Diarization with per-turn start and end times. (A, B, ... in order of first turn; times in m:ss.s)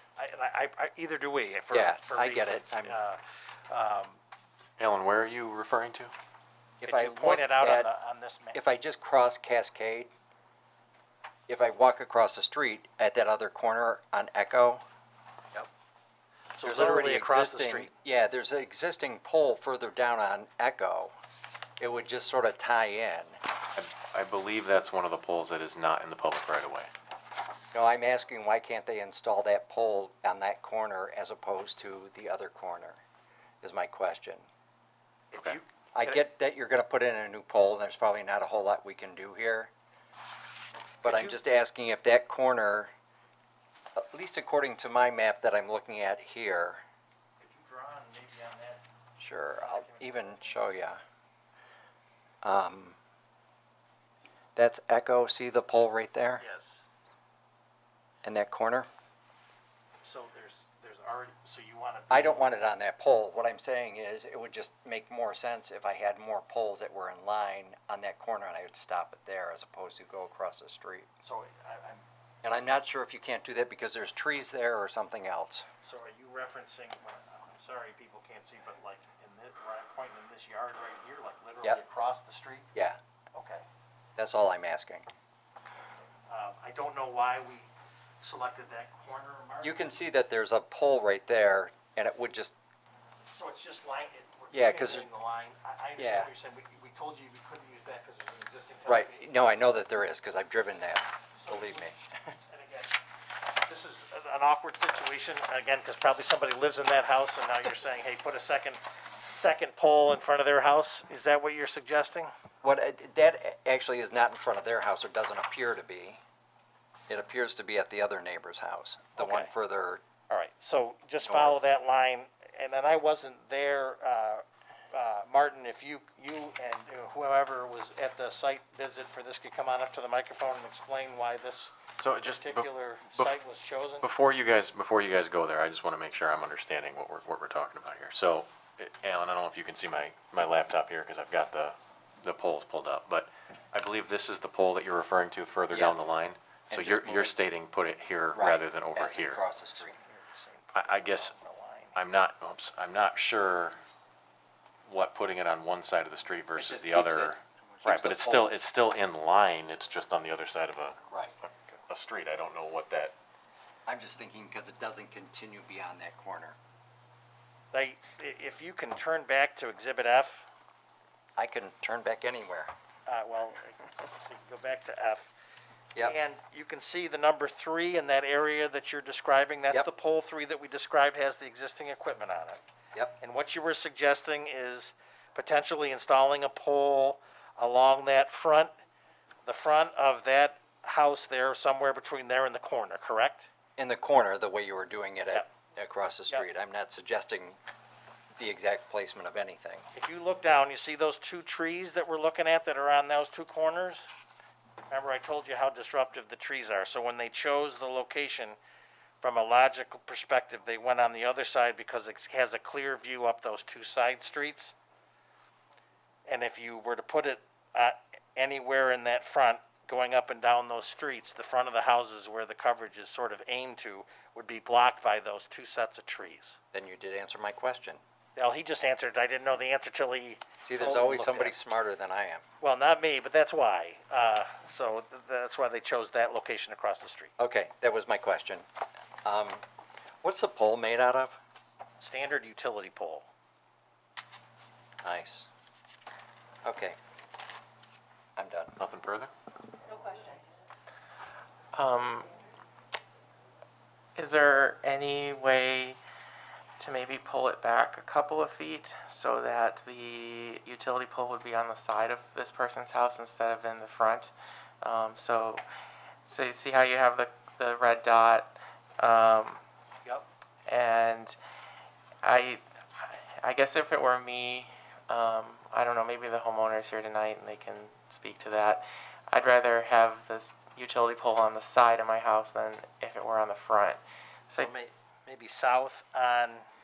0:00.2-0:04.2 A
0:01.7-0:03.0 B
0:04.8-0:06.1 C
0:06.8-0:07.9 B
0:06.8-0:08.6 A
0:08.5-0:10.1 B
0:11.5-0:14.8 B
0:16.6-0:17.9 A
0:16.6-0:21.1 B
0:21.8-0:23.4 B
0:23.8-0:26.9 C
0:27.7-0:33.0 B
0:33.6-0:34.5 B
0:35.3-0:36.2 A
0:35.9-0:39.7 B
0:41.0-0:41.4 A
0:41.0-0:42.9 B
0:44.0-0:46.8 B
0:47.4-0:48.8 A
0:49.2-0:51.0 B
0:49.6-0:50.6 A
0:52.4-0:53.0 B
0:54.6-0:56.4 B
0:56.4-0:56.8 A
0:58.2-0:58.9 B
1:00.0-1:02.4 A
1:02.1-1:11.1 B
1:11.2-1:12.0 A
1:12.4-1:15.7 B
1:15.8-1:22.7 A
1:23.3-1:23.6 A
1:24.2-1:25.1 B
1:26.3-1:27.7 A
1:28.2-1:29.9 A
1:29.6-1:32.5 B
1:33.3-1:39.4 A
1:34.5-1:35.1 B
1:36.0-1:36.3 B
1:38.9-1:42.0 B
1:41.4-1:43.0 A
1:43.6-1:52.3 A
1:52.6-1:56.2 B
1:57.1-2:00.0 B
1:59.2-1:59.5 A
2:00.3-2:14.1 A
2:01.2-2:01.6 B
2:12.0-2:13.3 C
2:14.0-2:29.4 C
2:25.7-2:26.0 B
2:26.7-2:27.4 B
2:28.4-2:30.0 B
2:29.8-2:32.0 A
2:30.7-2:31.3 C
2:32.0-2:33.8 C
2:34.9-2:41.0 C
2:36.6-2:38.6 B
2:41.1-2:41.4 B
2:41.9-2:43.1 C
2:43.9-2:46.6 B
2:47.7-2:50.5 A
2:51.4-2:52.7 B
2:53.1-2:55.3 A
2:56.0-3:02.6 A
3:03.2-3:08.7 A
3:09.4-3:13.5 A
3:13.8-3:17.6 B
3:18.4-3:19.8 B
3:20.0-3:24.1 A
3:24.9-3:28.6 A
3:29.2-3:34.8 A
3:36.3-3:46.6 A
3:46.7-3:48.0 B
3:48.4-3:51.5 A
3:50.6-3:52.4 B
3:52.6-3:57.3 A
3:57.4-3:58.6 B
3:59.2-3:59.6 B
4:00.2-4:01.4 B
4:02.0-4:03.3 A
4:05.0-4:05.5 B
4:06.6-4:07.0 B
4:08.4-4:08.8 B
4:08.8-4:09.3 C
4:11.7-4:12.3 D
4:14.2-4:16.0 D
4:16.8-4:25.6 D
4:26.3-4:29.6 D
4:30.7-4:31.4 D
4:32.2-4:44.7 D
4:44.6-4:46.6 A